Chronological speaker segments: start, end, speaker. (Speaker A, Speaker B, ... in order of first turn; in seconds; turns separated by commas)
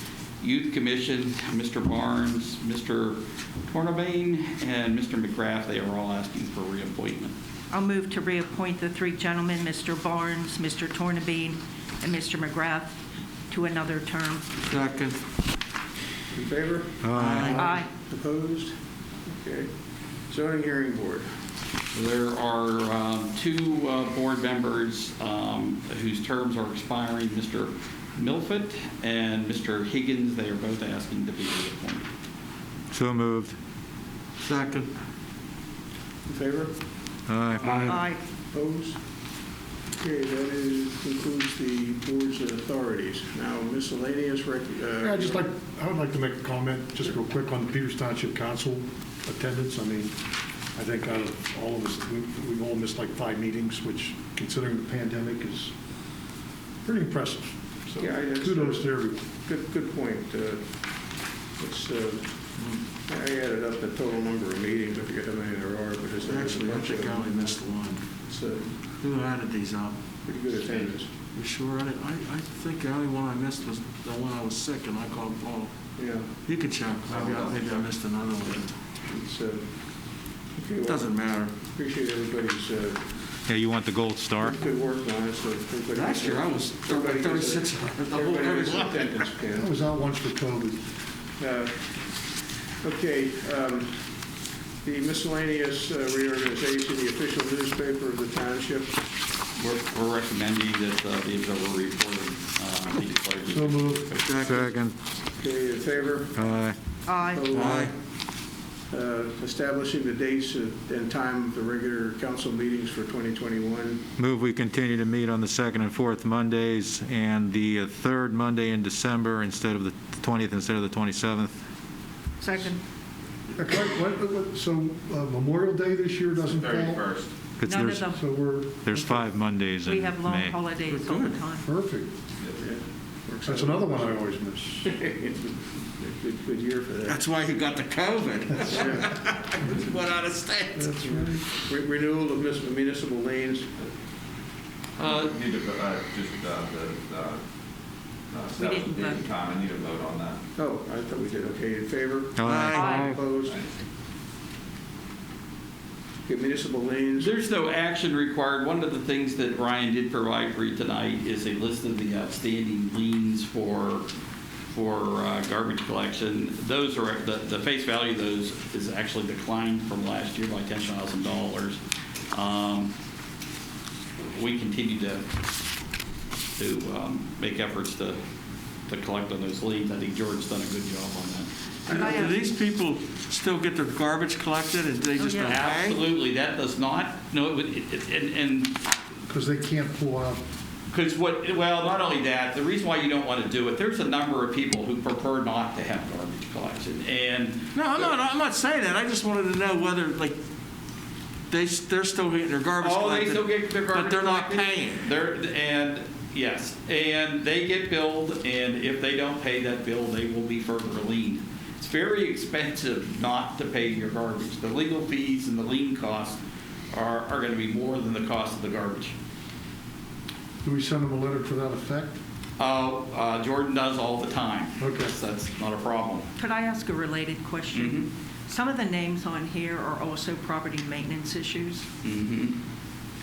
Speaker A: 0.4-7.3, Speaker B: 7.7-13.0, Speaker B: 13.5-14.4, Speaker C: 14.7-15.2, Speaker D: 16.3-18.7, Speaker E: 17.0-17.7, Speaker C: 17.1-17.7, Speaker B: 17.5-17.9, Speaker D: 19.2-19.7, Speaker D: 20.3-21.3, Speaker A: 21.9-32.1, Speaker E: 32.9-33.5, Speaker C: 34.4-34.9, Speaker D: 36.2-36.7, Speaker E: 37.3-38.0, Speaker B: 37.7-38.2, Speaker D: 38.5-39.0, Speaker D: 40.0-45.4, Speaker F: 45.0-50.1, Speaker F: 50.7-55.7, Speaker F: 56.8-59.2, Speaker D: 58.0-67.6, Speaker C: 62.5-62.8, Speaker C: 66.2-68.0, Speaker D: 68.2-68.7, Speaker C: 69.0-69.9, Speaker D: 70.2-71.1, Speaker C: 71.3-75.7, Speaker D: 76.0-76.3, Speaker C: 76.4-78.7, Speaker G: 77.1-77.8, Speaker D: 79.0-83.0, Speaker C: 80.8-81.5, Speaker E: 83.5-84.6, Speaker D: 84.4-89.7, Speaker C: 85.9-89.2, Speaker F: 89.5-90.8, Speaker D: 91.4-91.8, Speaker D: 92.8-94.3, Speaker D: 94.8-98.9, Speaker A: 99.6-104.3, Speaker F: 103.5-104.0, Speaker C: 104.2-104.7, Speaker E: 104.4-105.0, Speaker D: 105.3-106.4, Speaker E: 106.3-106.8, Speaker B: 107.0-107.5, Speaker D: 107.2-107.9, Speaker C: 107.5-107.9, Speaker D: 108.9-114.0, Speaker E: 114.2-121.6, Speaker B: 122.4-122.8, Speaker F: 123.5-127.0, Speaker G: 126.4-127.3, Speaker E: 127.6-128.1, Speaker B: 127.6-128.6, Speaker F: 128.0-129.5, Speaker E: 128.7-130.6, Speaker B: 129.8-131.7, Speaker C: 130.9-131.4, Speaker F: 131.6-132.1, Speaker D: 132.6-134.2, Speaker F: 133.4-134.8, Speaker D: 134.8-137.2, Speaker C: 137.0-141.1, Speaker D: 138.7-139.2, Speaker F: 140.8-141.4, Speaker D: 141.2-143.9, Speaker A: 145.0-145.3, Speaker G: 145.0-147.4, Speaker G: 148.3-150.4, Speaker B: 148.6-149.2, Speaker D: 150.6-153.6, Speaker E: 152.3-152.9, Speaker C: 152.4-153.3, Speaker B: 152.7-153.2, Speaker G: 153.4-153.7, Speaker D: 156.2-157.3, Speaker A: 157.2-164.1, Speaker A: 164.7-171.8, Speaker A: 172.3-172.9, Speaker A: 174.3-175.2, Speaker A: 176.6-178.2, Speaker A: 178.9-182.2, Speaker C: 181.9-186.0, Speaker B: 181.9-182.4, Speaker B: 185.2-185.6, Speaker A: 185.3-188.7, Speaker F: 189.3-190.4, Speaker A: 190.9-198.1, Speaker C: 197.7-200.4, Speaker C: 201.5-205.1, Speaker A: 202.8-216.4, Speaker A: 216.9-219.1, Speaker F: 220.6-222.2, Speaker A: 222.6-226.3, Speaker F: 224.8-225.1, Speaker B: 226.4-231.8, Speaker A: 227.7-228.1, Speaker A: 232.0-232.6